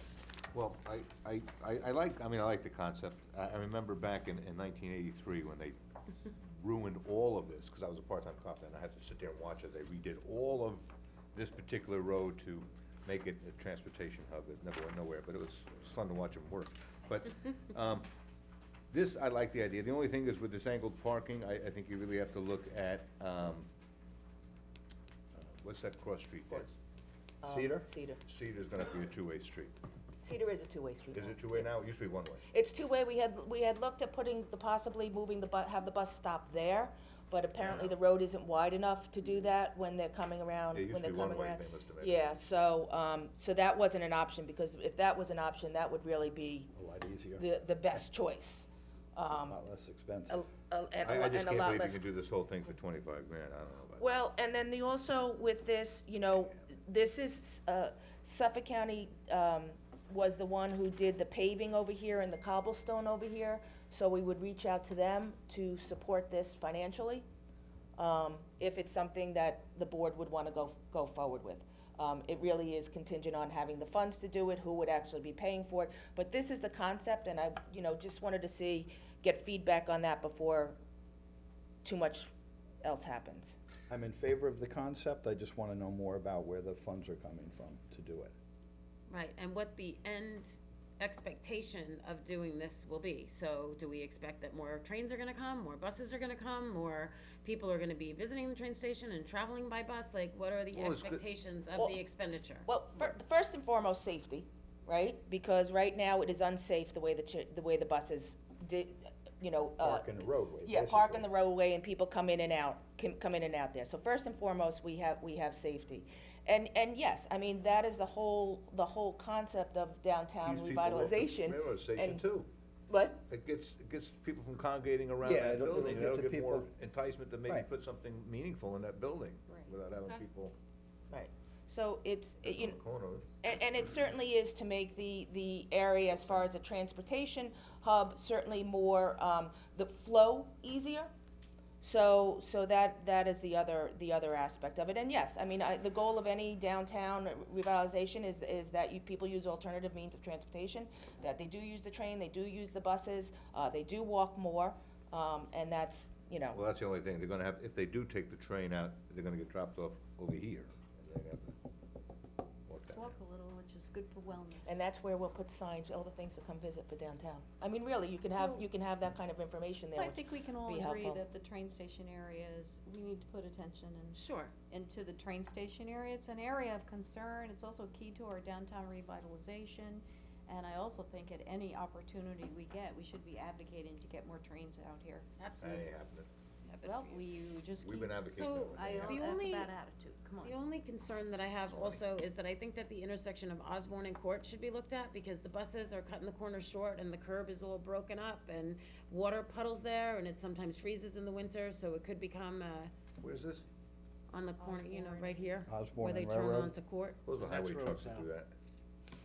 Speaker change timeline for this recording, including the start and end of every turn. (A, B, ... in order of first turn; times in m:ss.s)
0:00.5-0:05.8 A
0:06.4-0:18.1 A
0:18.9-0:23.7 A
0:25.4-0:26.7 A
0:27.4-0:28.2 B
0:27.4-0:27.8 C
0:28.2-0:29.7 A
0:30.2-0:31.7 B
0:31.1-0:32.4 A
0:32.5-0:46.7 B
0:37.6-0:37.9 A
0:40.7-0:42.3 A
0:46.7-0:47.4 C
0:47.4-0:49.6 B
0:49.4-0:50.4 C
0:50.3-0:52.1 B
0:51.0-0:54.2 A
0:54.0-1:07.2 B
1:08.0-1:20.8 B
1:21.8-1:22.3 B
1:22.8-1:23.6 B
1:23.9-1:28.3 C
1:29.1-1:42.7 D
1:40.7-1:41.2 A
1:42.6-2:02.2 B
1:49.8-1:51.3 C
2:00.4-2:02.5 A
2:02.9-2:03.2 B
2:03.3-2:10.5 A
2:05.2-2:06.7 C
2:11.1-2:12.8 B
2:12.4-2:13.3 A
2:13.4-2:21.1 B
2:21.8-2:36.6 B
2:36.5-2:41.5 A
2:42.7-2:43.0 A
2:42.9-2:44.8 E
2:44.6-2:51.2 B
2:48.3-2:48.7 E
2:49.9-3:05.3 E
2:54.1-2:54.5 D
3:05.4-3:05.9 D
3:05.6-3:06.3 A
3:06.7-3:07.2 D
3:06.8-3:10.6 E
3:07.8-3:09.2 A
3:08.7-3:09.7 D
3:10.4-3:22.9 D
3:23.2-3:23.6 A
3:24.3-3:27.2 D
3:24.6-3:25.6 E
3:25.7-3:26.7 C
3:27.2-3:28.5 A
3:27.4-3:28.3 C